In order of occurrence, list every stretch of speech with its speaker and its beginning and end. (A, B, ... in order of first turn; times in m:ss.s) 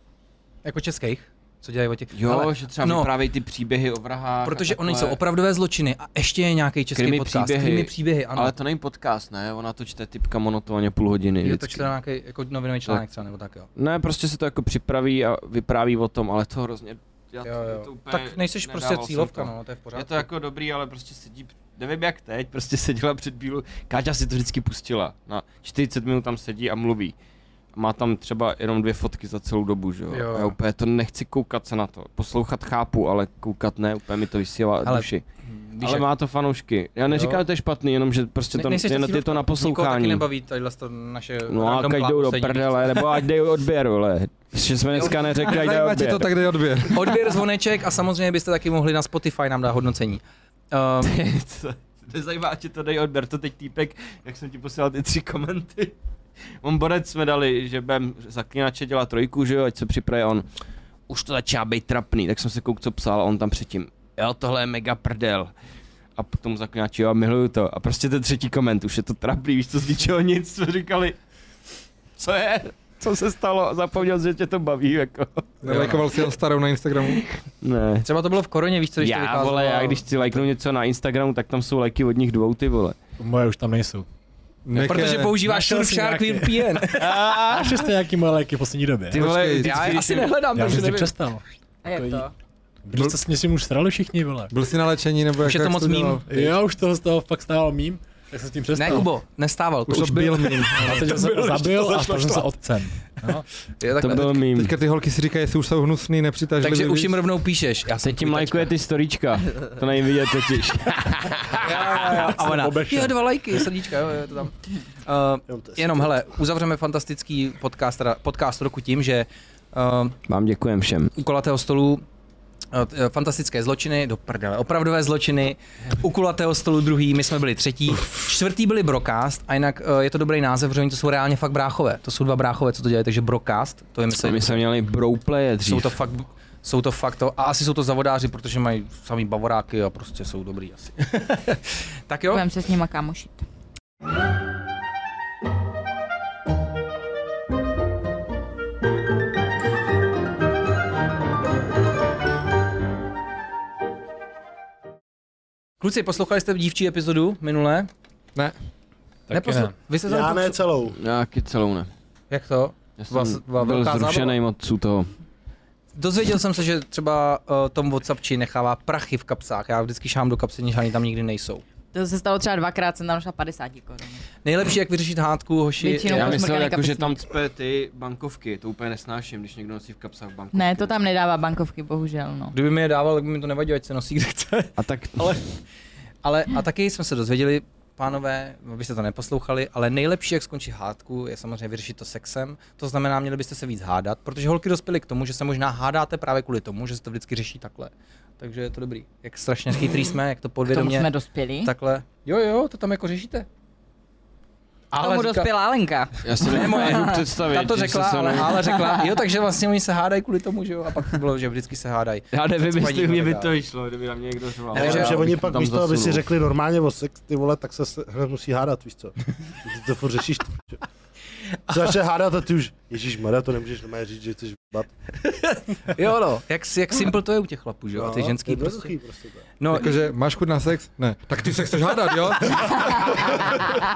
0:00.6-0:03.1 A
0:02.1-0:05.2 B
0:04.4-0:08.5 A
0:07.0-0:11.9 B
0:11.4-0:13.7 A
0:13.8-0:27.1 B
0:17.4-0:20.3 A
0:27.7-0:35.2 B
0:30.1-0:30.6 A
0:34.8-0:36.1 A
0:35.8-0:40.2 B
0:37.1-0:37.4 A
0:38.5-0:43.2 A
0:41.5-0:46.3 B
0:44.9-0:45.4 A
0:45.4-0:47.1 C
0:46.9-0:51.1 A
0:51.0-0:55.9 B
0:56.6-1:00.4 B
1:01.1-1:05.5 B
1:06.2-1:11.2 B
1:12.2-1:15.6 B
1:15.6-1:17.2 C
1:15.6-1:16.0 A
1:17.0-1:18.1 B
1:18.0-1:20.4 A
1:19.0-1:23.0 B
1:23.2-1:24.1 D
1:24.6-1:25.4 C
1:24.8-1:29.3 D
1:24.8-1:27.8 A
1:26.9-1:27.9 B
1:29.1-1:30.4 B
1:29.1-1:29.9 C
1:29.6-1:31.1 A
1:30.5-1:32.3 D
1:31.8-1:32.3 E
1:32.8-1:34.5 D
1:34.5-1:36.2 C
1:35.4-1:36.5 A
1:36.3-1:39.1 D
1:38.8-1:42.4 A
1:39.9-1:41.0 C
1:40.8-1:43.4 D
1:43.8-1:44.3 A
1:44.0-1:44.7 B
1:44.5-1:47.2 C
1:46.6-1:48.7 A
1:48.0-1:51.6 B
1:51.6-2:00.2 A
1:51.7-1:53.2 D
1:55.5-1:56.1 F
2:00.3-2:01.1 B
2:01.2-2:02.0 A
2:02.7-2:14.6 A
2:14.1-2:15.9 B
2:15.6-2:22.4 A
2:22.3-2:23.4 E
2:35.8-2:37.9 A
2:39.3-2:39.7 D
2:39.3-2:40.6 A
2:40.1-2:41.0 F
2:41.0-2:41.9 B
2:42.3-2:44.4 A
2:43.0-2:45.1 B
2:45.9-2:51.6 A
2:51.9-2:54.2 E
2:54.4-2:56.5 A
2:55.8-2:57.2 E
2:56.1-3:01.0 B
3:00.5-3:02.5 E
3:02.5-3:05.4 A
3:04.8-3:05.4 B
3:06.2-3:21.1 A
3:20.7-3:21.7 E
3:21.6-3:23.5 A
3:24.9-3:25.5 A
3:25.0-3:27.2 E
3:26.2-3:28.6 B
3:26.4-3:33.5 A
3:28.6-3:29.1 E
3:32.3-3:36.2 B
3:34.7-3:35.1 A
3:34.7-3:40.8 F
3:41.7-3:44.9 F
3:45.2-3:48.9 A
3:47.9-3:49.5 F
3:49.6-3:50.1 A
3:49.7-3:53.2 C
3:52.9-3:53.5 F